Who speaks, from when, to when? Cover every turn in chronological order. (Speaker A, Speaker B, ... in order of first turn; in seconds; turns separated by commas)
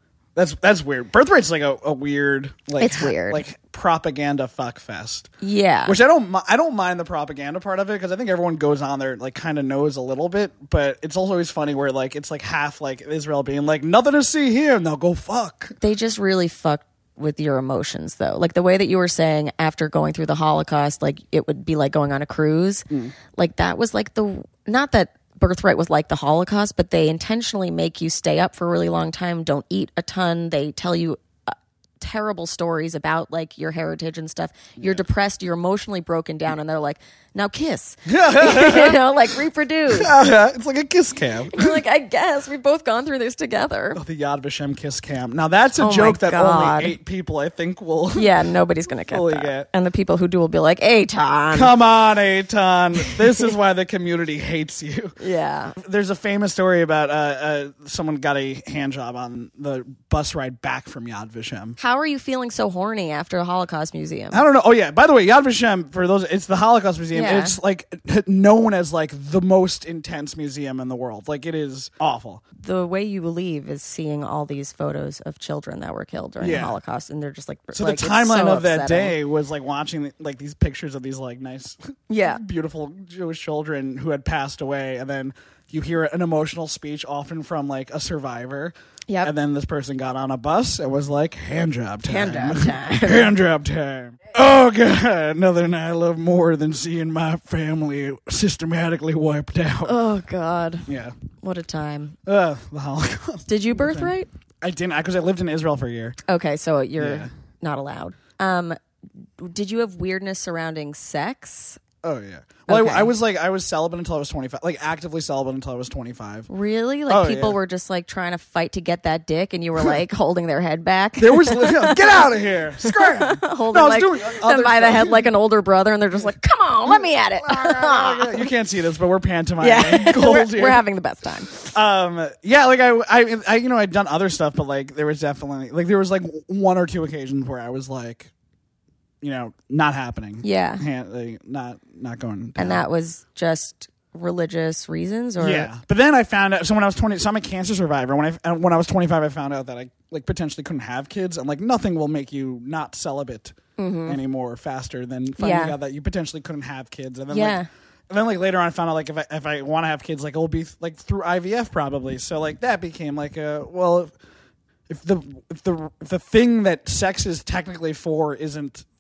Speaker A: 0.3-5.3, Speaker B: 2.8-3.4, Speaker B: 5.4-6.0, Speaker A: 5.9-15.8, Speaker B: 15.8-40.1, Speaker A: 34.8-35.0, Speaker A: 38.1-39.1, Speaker A: 39.9-41.8, Speaker B: 41.5-44.0, Speaker A: 44.0-48.3, Speaker B: 45.8-47.0, Speaker B: 48.1-51.7, Speaker A: 49.1-49.7, Speaker A: 51.5-55.1, Speaker B: 55.2-55.8, Speaker A: 55.8-61.8, Speaker B: 61.8-64.4, Speaker A: 64.3-72.4, Speaker B: 67.1-67.6, Speaker B: 72.6-79.2, Speaker A: 76.4-76.8, Speaker A: 77.7-100.0, Speaker B: 82.1-82.4, Speaker B: 92.0-93.3, Speaker B: 99.8-100.9, Speaker A: 100.9-101.1, Speaker B: 101.4-102.2, Speaker A: 102.3-106.2, Speaker B: 103.5-104.3, Speaker B: 106.3-108.8, Speaker A: 107.0-107.3, Speaker B: 109.4-111.8, Speaker A: 112.0-116.5, Speaker B: 112.7-113.1, Speaker B: 116.5-128.5, Speaker A: 117.1-117.6, Speaker A: 121.2-125.3, Speaker A: 126.9-130.8, Speaker B: 129.6-131.6, Speaker A: 131.7-138.3, Speaker A: 139.2-142.8, Speaker B: 140.4-140.8, Speaker B: 142.6-145.7, Speaker A: 145.4-164.1, Speaker B: 153.8-154.2, Speaker B: 155.4-155.8, Speaker B: 157.3-157.7, Speaker A: 164.9-168.9